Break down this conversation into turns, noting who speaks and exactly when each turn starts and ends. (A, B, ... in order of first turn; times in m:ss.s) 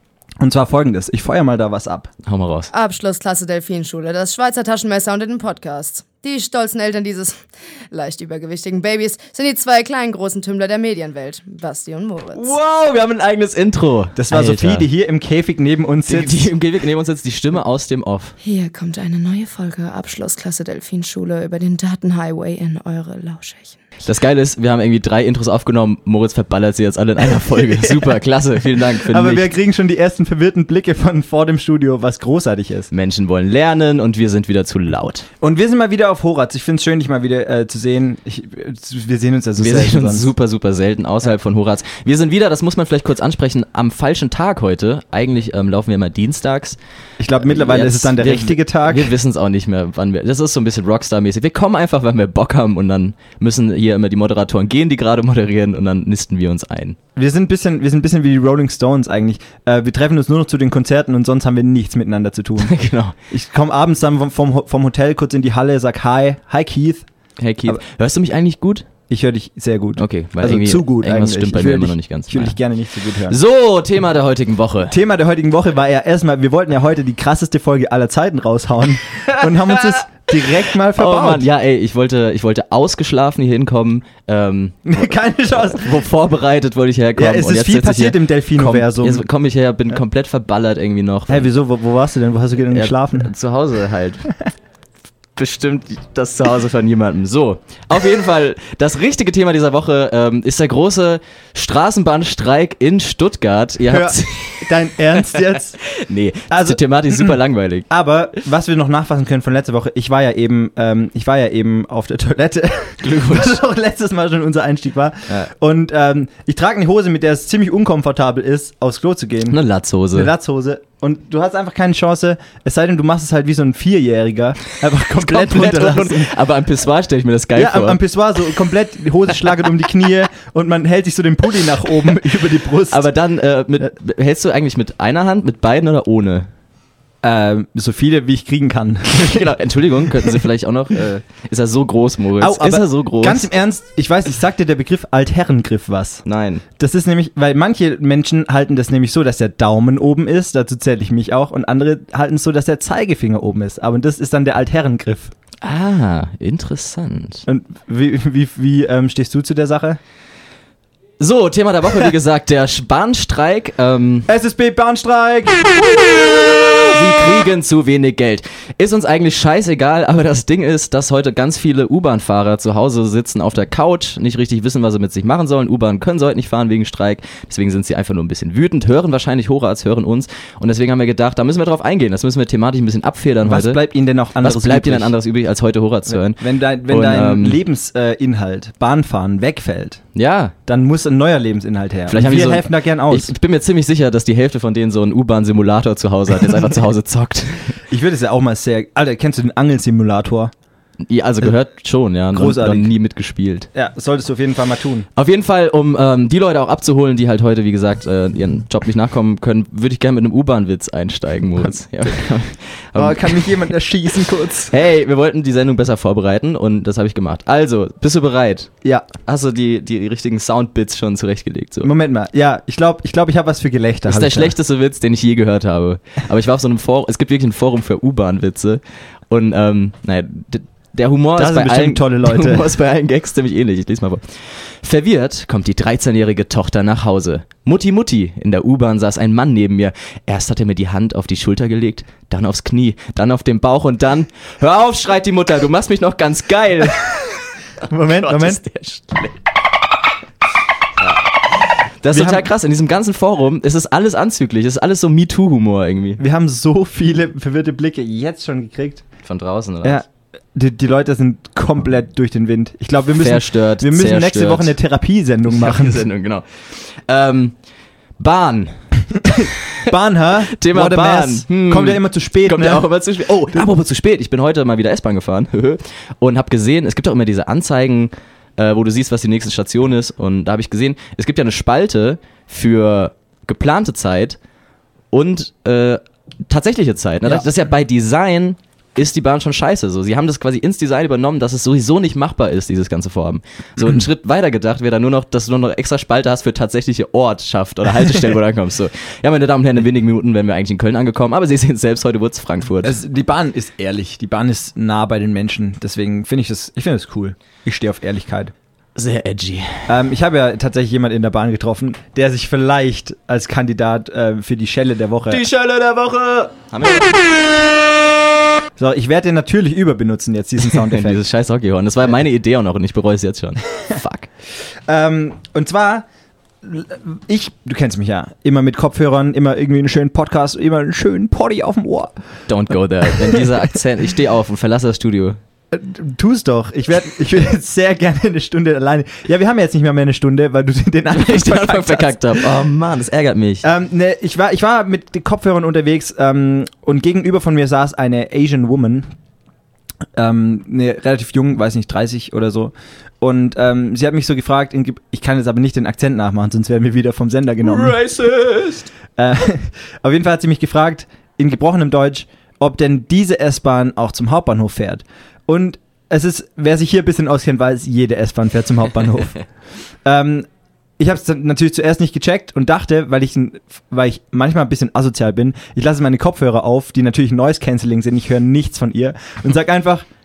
0:00.4-0:02.1 A
0:02.2-0:02.7 B
0:02.7-0:12.5 C
0:12.3-0:14.9 B
0:14.2-0:16.5 A
0:16.1-0:18.3 B
0:18.4-0:23.8 C
0:24.0-0:29.5 B
0:27.6-0:28.1 A
0:29.0-0:32.9 A
0:32.9-0:35.3 B
0:35.4-0:40.3 A
0:39.6-0:46.8 B
0:47.2-0:49.1 A
0:47.4-0:57.0 B
0:57.2-1:02.7 A
1:02.6-1:03.1 B
1:03.3-1:07.0 A
1:07.4-1:08.9 B
1:09.1-1:13.4 A
1:10.0-1:12.6 B
1:13.2-1:14.9 B
1:14.9-1:21.5 A
1:20.9-1:31.5 B
1:24.8-1:26.0 A
1:27.2-1:29.2 A
1:31.3-1:33.3 A
1:32.7-1:34.3 B
1:35.4-1:44.7 B
1:43.9-1:45.8 A
1:45.8-1:47.9 B
1:46.5-1:47.4 A
1:47.9-1:59.6 A
1:53.0-1:53.5 B
1:59.5-2:00.3 B
2:00.1-2:06.3 A
2:05.2-2:08.0 B
2:07.5-2:13.1 A
2:12.9-2:16.5 B
2:17.2-2:19.5 A
2:19.2-2:23.5 B
2:22.4-2:26.2 A
2:26.2-2:26.6 B
2:26.8-2:35.3 A
2:35.6-2:37.4 B
2:37.4-2:40.0 A
2:41.2-2:44.3 B
2:44.3-2:45.8 A
2:46.0-3:03.8 B
3:03.4-3:05.1 A
3:04.4-3:07.6 B
3:06.1-3:10.0 A
3:10.1-3:10.5 B
3:10.6-3:13.3 A
3:12.1-3:17.8 B
3:17.9-3:20.5 A
3:21.0-3:23.7 B
3:22.3-3:22.9 A
3:23.7-3:25.1 A
3:25.2-3:33.5 B
3:33.0-3:34.7 A
3:34.7-3:41.9 B
3:41.8-3:44.5 A
3:44.1-4:07.2 B
3:51.4-3:52.7 A
4:07.8-4:08.6 A
4:08.1-4:09.4 B
4:12.0-4:16.2 B
4:12.1-4:12.5 A
4:16.2-4:19.0 A
4:19.2-4:20.0 B
4:19.8-4:26.0 A
4:23.1-4:24.8 B
4:25.5-4:27.6 B
4:28.2-4:28.8 B
4:29.2-4:32.9 A
4:29.3-4:29.9 B
4:30.6-4:44.4 B
4:45.1-5:02.9 B
5:02.8-5:08.5 A
5:09.0-5:09.9 B
5:09.9-5:15.4 A
5:15.3-5:17.2 B
5:18.8-5:21.2 A
5:20.6-5:24.3 B
5:24.9-5:26.0 A
5:26.6-5:32.1 A
5:32.5-5:35.4 B
5:33.2-5:33.5 A
5:35.7-5:42.4 A
5:41.1-5:43.7 B
5:43.6-5:49.1 A
5:50.2-5:58.0 A
5:57.6-5:58.9 B
5:59.1-6:09.4 A
6:10.0-6:10.5 A
6:11.0-6:20.0 A